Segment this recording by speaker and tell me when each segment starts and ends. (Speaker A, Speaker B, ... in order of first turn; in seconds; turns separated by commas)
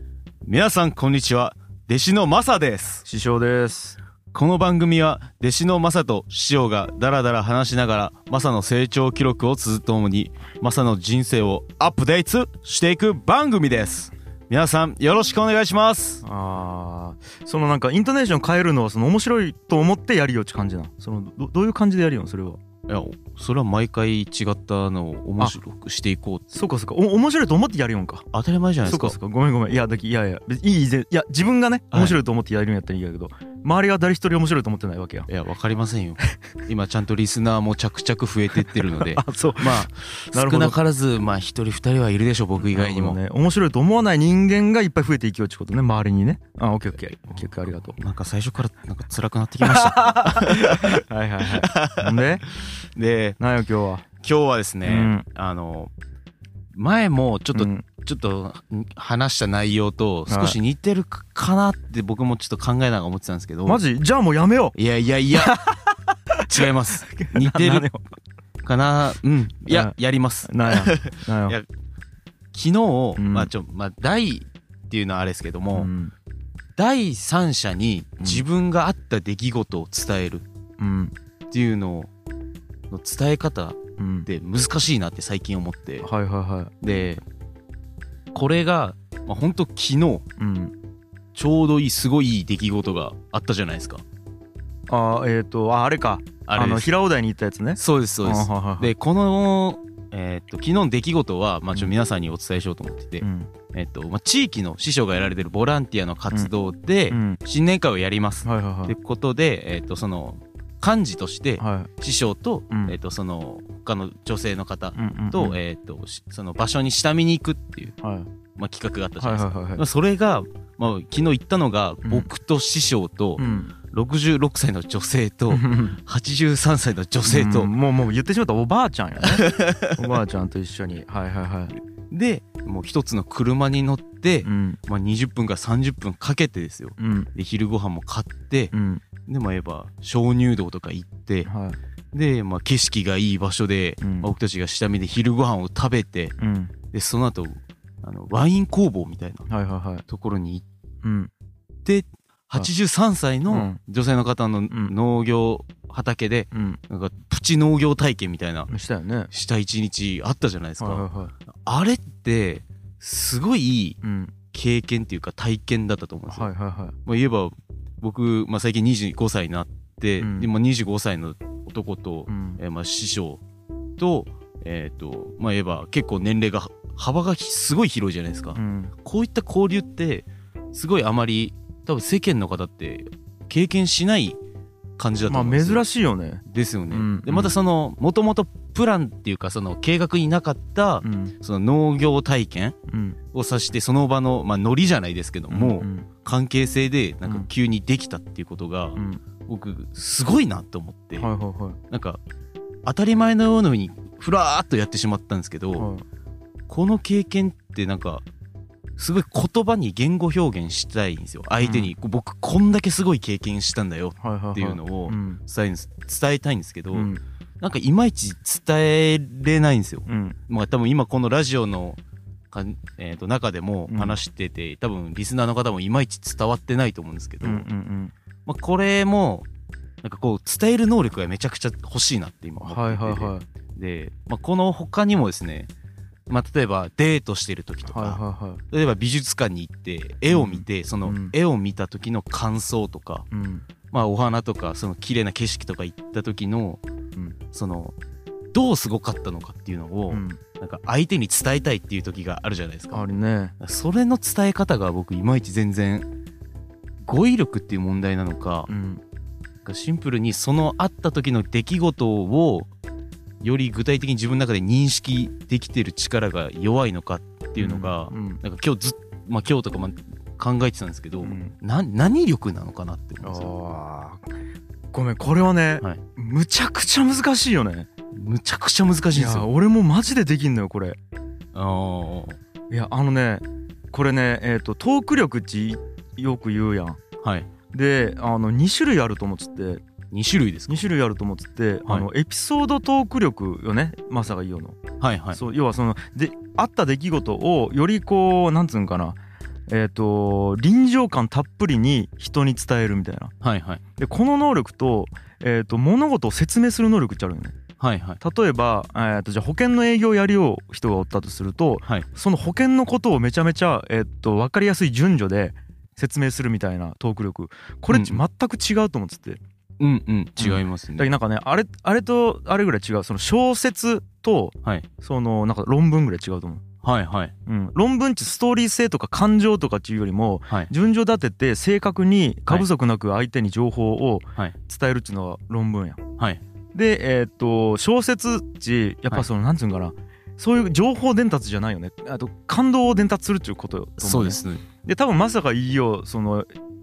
Speaker A: 0.4-3.0, Speaker B: 3.0-4.0, Speaker A: 4.3-16.2, Speaker B: 16.2-22.6, Speaker A: 22.9-26.6, Speaker B: 26.5-28.3, Speaker A: 28.3-29.2, Speaker B: 28.8-35.3, Speaker A: 31.9-32.2, Speaker A: 35.3-43.2, Speaker B: 39.0-40.8, Speaker B: 42.6-48.0, Speaker A: 48.0-51.0, Speaker B: 49.6-52.5, Speaker A: 51.6-53.4, Speaker B: 53.4-54.1, Speaker A: 54.2-55.9, Speaker B: 54.8-55.2, Speaker A: 56.7-63.8, Speaker B: 57.5-57.9, Speaker B: 60.3-60.6, Speaker B: 63.7-64.8, Speaker A: 64.8-65.5, Speaker B: 65.3-68.0, Speaker A: 66.5-67.9, Speaker A: 68.6-71.7, Speaker B: 69.7-70.0, Speaker B: 70.5-71.6, Speaker A: 72.5-75.9, Speaker B: 73.2-73.5, Speaker B: 75.8-76.1, Speaker A: 76.8-80.5, Speaker B: 80.8-81.1, Speaker A: 81.5-82.1, Speaker A: 82.9-86.1, Speaker B: 84.0-84.3, Speaker B: 86.0-86.7, Speaker A: 86.8-87.2, Speaker A: 88.3-90.2, Speaker B: 90.4-90.7, Speaker A: 91.3-94.0, Speaker B: 94.9-98.9, Speaker A: 96.5-96.9, Speaker A: 97.8-118.0, Speaker B: 103.2-103.5, Speaker B: 107.1-107.4, Speaker B: 108.4-109.0, Speaker B: 111.6-111.9, Speaker B: 112.7-113.0, Speaker B: 115.0-115.6, Speaker B: 118.0-118.3, Speaker A: 118.6-127.7, Speaker B: 119.2-119.8, Speaker B: 122.0-122.3, Speaker B: 123.4-123.7, Speaker B: 125.5-126.0, Speaker B: 127.2-131.7, Speaker A: 129.3-130.1, Speaker A: 132.1-138.7, Speaker B: 134.4-134.8, Speaker B: 137.0-137.3, Speaker B: 138.7-139.0, Speaker A: 139.3-141.5, Speaker B: 141.4-141.8, Speaker A: 142.1-146.3, Speaker B: 144.0-144.3, Speaker B: 146.4-146.7, Speaker A: 146.9-149.5, Speaker B: 149.5-150.1, Speaker A: 150.1-150.6, Speaker B: 151.0-151.3, Speaker A: 151.8-158.7, Speaker B: 153.5-153.8, Speaker B: 156.5-156.8, Speaker B: 158.7-159.3, Speaker A: 159.3-164.0, Speaker B: 160.8-161.3, Speaker B: 164.0-164.3, Speaker A: 164.5-166.5, Speaker B: 166.3-167.0, Speaker A: 167.1-173.4, Speaker B: 170.2-170.5, Speaker B: 172.3-172.6, Speaker A: 174.0-184.4, Speaker B: 178.5-178.9, Speaker A: 185.0-185.8, Speaker B: 185.3-187.6, Speaker A: 186.5-192.8, Speaker B: 191.0-191.3, Speaker B: 192.9-193.2, Speaker A: 193.3-201.3, Speaker B: 195.5-196.1, Speaker B: 199.0-199.2, Speaker B: 201.2-201.8, Speaker A: 201.9-202.2, Speaker A: 202.9-205.9, Speaker B: 205.8-206.1, Speaker A: 206.7-208.2, Speaker A: 209.0-222.0, Speaker B: 211.6-211.9, Speaker B: 214.2-215.4, Speaker B: 216.9-217.2, Speaker B: 220.1-220.4, Speaker A: 222.5-227.7, Speaker B: 223.9-224.2, Speaker B: 227.4-228.1, Speaker A: 228.5-229.5, Speaker A: 230.0-235.7, Speaker B: 232.6-233.5, Speaker A: 236.3-243.3, Speaker B: 237.9-238.6, Speaker B: 240.3-241.3, Speaker B: 243.3-243.7, Speaker A: 243.9-246.8, Speaker A: 247.5-247.9, Speaker A: 248.5-253.0, Speaker B: 250.1-250.4, Speaker B: 252.9-253.6, Speaker A: 253.6-256.1, Speaker A: 257.0-258.7, Speaker B: 258.7-259.0, Speaker A: 259.6-262.7, Speaker A: 263.4-273.5, Speaker B: 267.6-268.4, Speaker B: 271.2-271.5, Speaker B: 273.2-274.3, Speaker B: 274.9-277.9, Speaker A: 278.1-279.5, Speaker B: 279.1-281.0, Speaker A: 281.5-282.4, Speaker B: 282.7-287.0, Speaker A: 287.2-287.5, Speaker B: 287.7-289.8, Speaker A: 290.1-290.9, Speaker B: 290.7-294.8, Speaker A: 295.0-295.4, Speaker B: 295.3-299.2, Speaker B: 299.7-303.3, Speaker A: 303.4-303.8, Speaker B: 304.0-307.6, Speaker A: 307.8-308.2, Speaker B: 308.2-319.4, Speaker A: 317.9-318.2, Speaker A: 319.8-321.1, Speaker B: 320.4-326.6, Speaker A: 326.8-327.3, Speaker B: 327.5-336.0, Speaker B: 336.7-346.5, Speaker A: 344.0-344.7